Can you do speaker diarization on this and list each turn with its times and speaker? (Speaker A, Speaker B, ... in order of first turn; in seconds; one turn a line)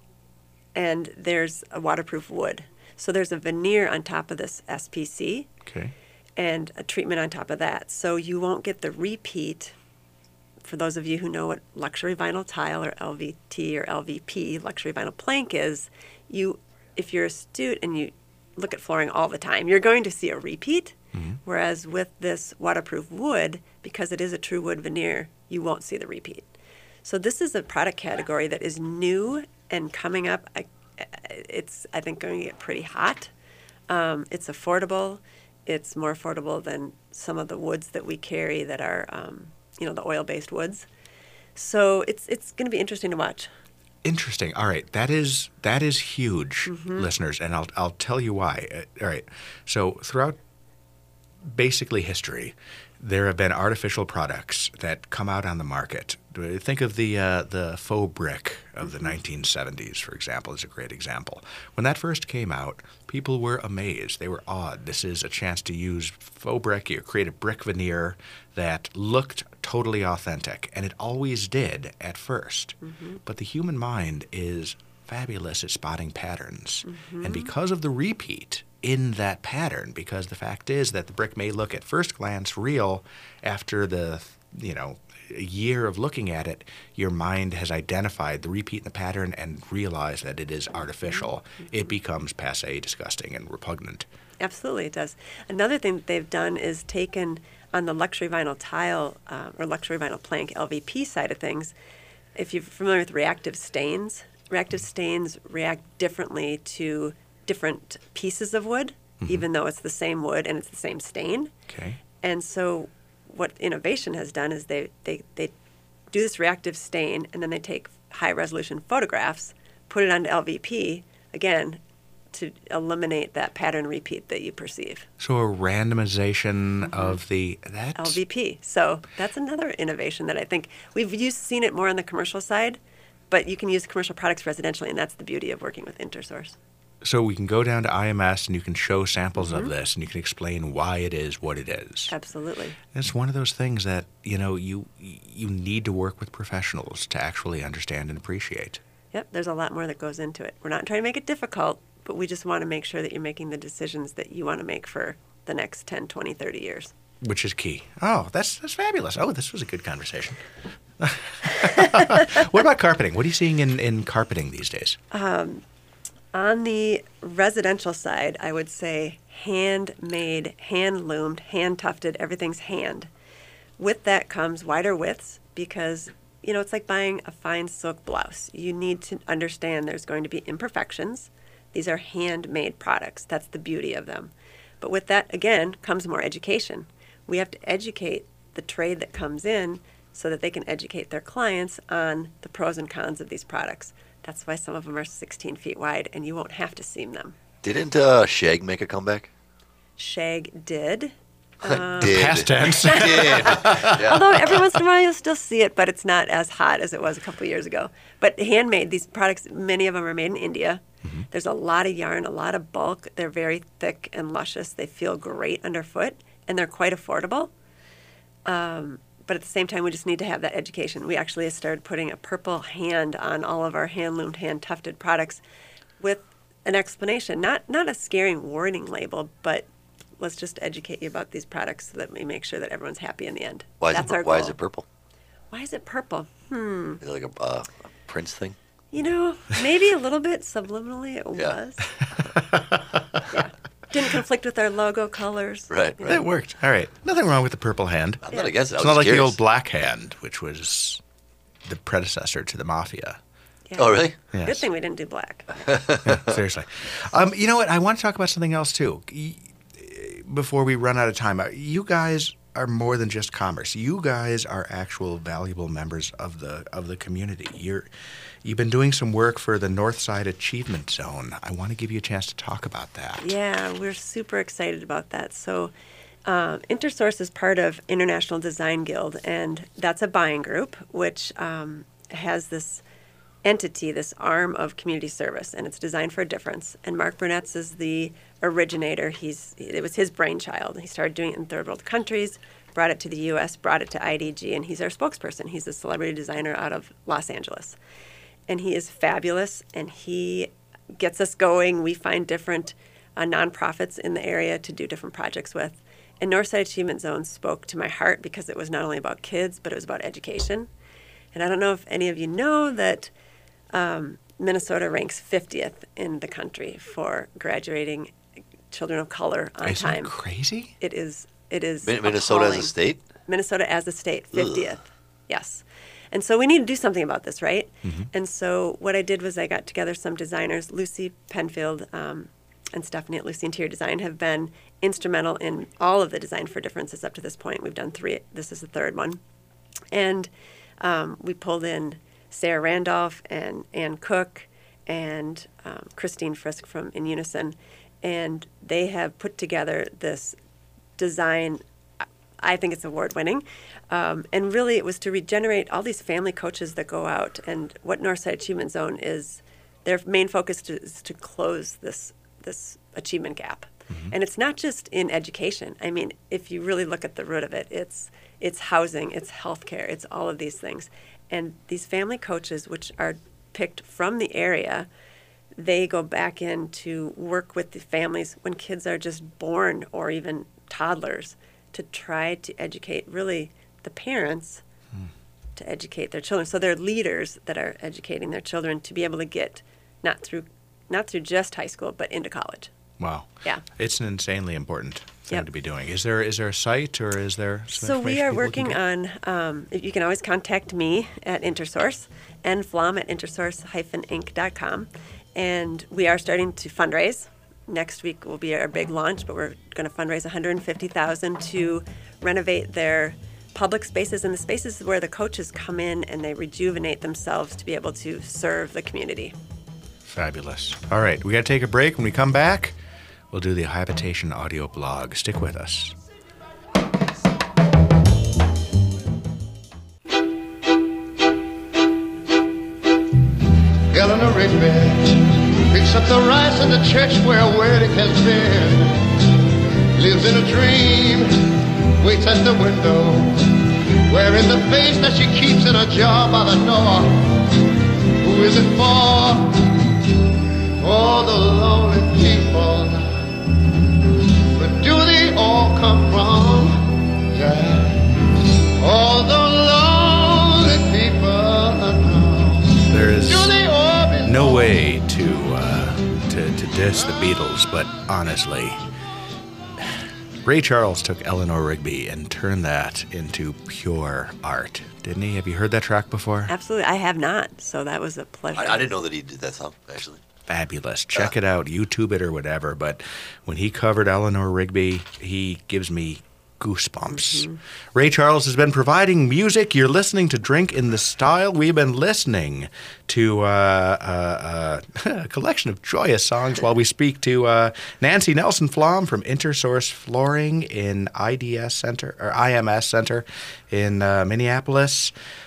Speaker A: 0.7-5.5
Speaker B: 5.7-5.9
Speaker A: 6.4-9.7
Speaker A: 10.6-26.5
Speaker B: 21.1-21.4
Speaker A: 27.0-33.3
Speaker A: 33.9-40.9
Speaker A: 41.5-43.5
Speaker B: 44.0-50.4
Speaker A: 46.6-47.0
Speaker B: 51.5-94.0
Speaker A: 72.8-73.2
Speaker A: 76.8-77.5
Speaker A: 94.4-101.7
Speaker A: 102.3-111.5
Speaker B: 111.7-112.0
Speaker A: 112.2-115.5
Speaker A: 116.1-121.8
Speaker A: 122.3-125.1
Speaker B: 125.2-128.2
Speaker A: 126.8-127.2
Speaker A: 128.0-132.8
Speaker A: 133.3-136.6
Speaker B: 137.0-142.1
Speaker A: 139.3-139.7
Speaker A: 142.1-142.8
Speaker B: 142.9-148.8
Speaker A: 149.1-156.9
Speaker B: 157.2-160.4
Speaker B: 161.0-165.0
Speaker A: 165.1-165.6
Speaker A: 166.3-173.1
Speaker A: 173.8-197.3
Speaker C: 197.6-199.3
Speaker A: 200.0-217.5
Speaker B: 201.6-204.6
Speaker C: 202.0-204.4
Speaker A: 218.4-225.4
Speaker A: 226.0-229.7
Speaker A: 230.2-234.6
Speaker C: 233.8-234.8
Speaker A: 235.5-237.0
Speaker C: 237.0-238.6
Speaker A: 238.9-241.9
Speaker B: 242.4-243.2
Speaker A: 243.3-246.2
Speaker C: 245.7-246.2
Speaker B: 246.1-251.0
Speaker C: 248.2-249.4
Speaker B: 251.6-253.2
Speaker A: 253.7-255.6
Speaker C: 253.8-254.1
Speaker B: 254.3-254.6
Speaker C: 255.7-256.1
Speaker B: 256.0-267.9
Speaker B: 268.4-273.3
Speaker A: 273.2-275.7
Speaker A: 276.2-282.8
Speaker A: 283.4-297.8
Speaker A: 298.5-310.7
Speaker A: 311.3-313.1
Speaker A: 313.7-318.1
Speaker A: 318.7-320.1
Speaker B: 319.6-320.7
Speaker A: 320.8-322.7
Speaker C: 321.8-323.0
Speaker A: 323.3-339.2
Speaker C: 324.3-324.6
Speaker B: 327.8-328.1
Speaker A: 339.9-340.3
Speaker A: 340.8-350.4
Speaker A: 351.0-351.6
Speaker A: 352.4-374.9
Speaker A: 375.6-384.6
Speaker A: 385.6-392.7
Speaker B: 393.0-398.8
Speaker A: 397.7-419.4
Speaker B: 420.1-422.8
Speaker B: 423.3-426.0
Speaker D: 433.9-439.3
Speaker D: 439.9-447.6
Speaker D: 448.2-449.9
Speaker D: 450.8-453.5
Speaker D: 454.1-464.7
Speaker B: 462.9-463.5
Speaker B: 464.2-468.8
Speaker B: 470.4-476.5
Speaker A: 476.5-478.9
Speaker C: 478.6-480.2
Speaker B: 480.5-505.1
Speaker A: 487.1-487.6